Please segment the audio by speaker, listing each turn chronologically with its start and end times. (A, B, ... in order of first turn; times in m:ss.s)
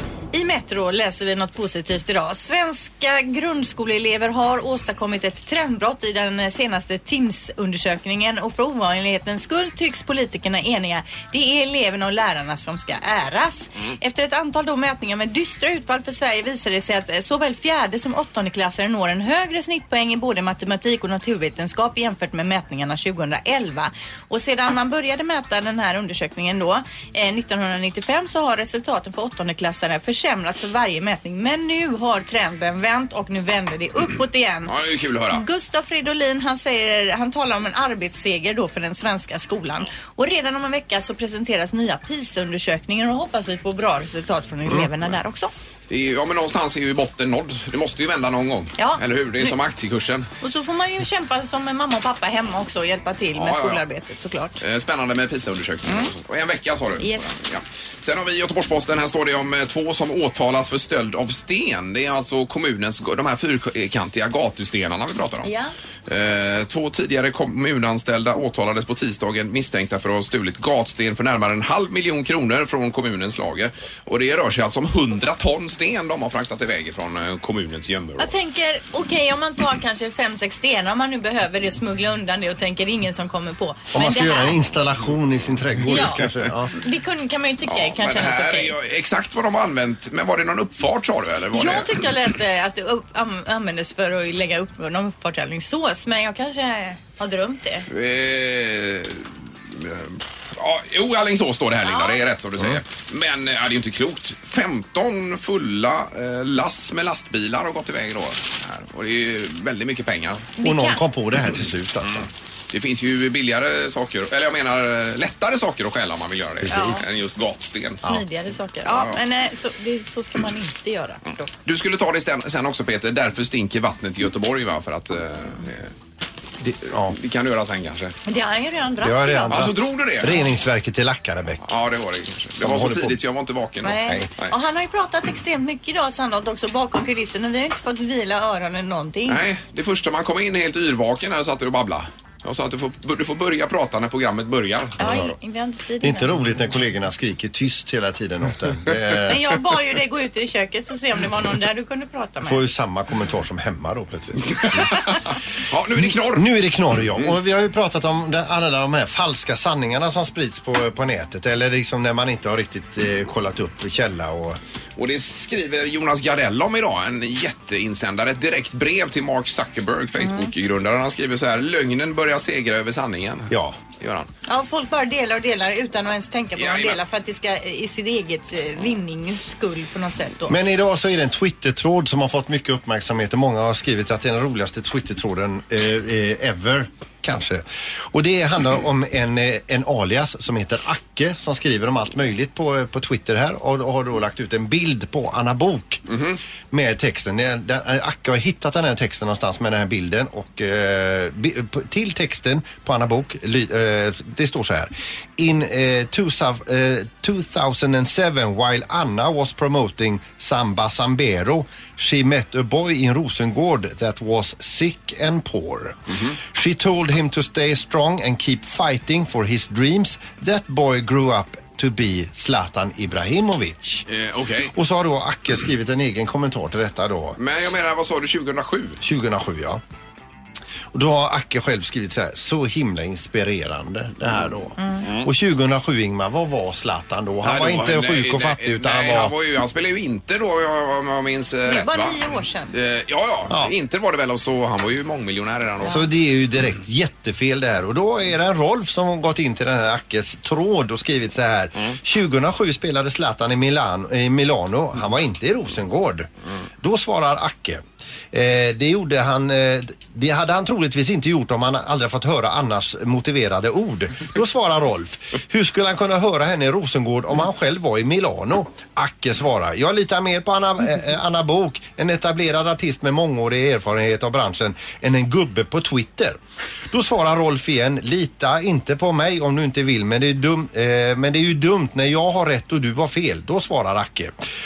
0:00.3-0:34.7 A
0:34.6-0:35.4 B
0:35.3-0:45.5 A
0:45.9-0:50.3 B
0:48.8-0:49.5 A
0:50.4-0:54.6 A
0:53.3-0:53.8 B
0:54.6-1:05.5 B
0:55.8-0:56.1 A
0:57.0-0:57.4 A
1:05.4-1:05.7 A
1:06.1-1:18.3 B
1:18.2-1:24.6 A
1:23.9-1:26.7 C
1:25.9-1:26.2 A
1:26.7-1:28.7 A
1:27.6-1:32.1 B
1:31.5-1:37.9 A
1:37.9-1:50.5 B
1:41.8-1:42.2 A
1:50.6-1:51.0 A
1:50.6-1:52.3 C
1:52.0-1:58.2 B
1:56.6-1:57.1 C
1:56.7-1:57.1 A
1:58.0-2:01.5 A
1:58.8-1:59.2 B
2:01.6-2:05.9 B
2:06.6-2:07.2 C
2:06.9-2:08.1 B
2:08.2-2:09.8 A
2:09.0-2:11.7 C
2:09.5-2:10.4 B
2:11.6-2:14.5 B
2:12.6-2:13.2 C
2:13.8-2:19.4 A
2:19.3-2:25.3 B
2:25.0-2:26.4 A
2:26.0-2:29.5 C
2:29.3-2:32.6 A
2:32.4-2:34.9 C
2:34.5-2:36.5 B
2:36.0-2:44.6 C
2:45.0-2:54.3 B
2:50.2-2:50.5 A
2:53.5-2:53.8 C
2:54.5-3:00.6 A
2:56.6-2:57.0 B
3:00.5-3:16.1 C
3:16.1-3:16.4 B
3:16.7-3:44.1 C
3:44.1-3:44.7 B
3:44.7-3:47.4 C
3:47.4-3:49.0 B
3:49.0-3:49.8 C
3:50.9-3:59.3 C
3:55.0-3:55.3 B
3:57.4-4:02.2 B
4:01.6-4:02.7 A
4:02.7-4:06.0 B
4:05.8-4:36.4 C
4:36.9-4:44.3 C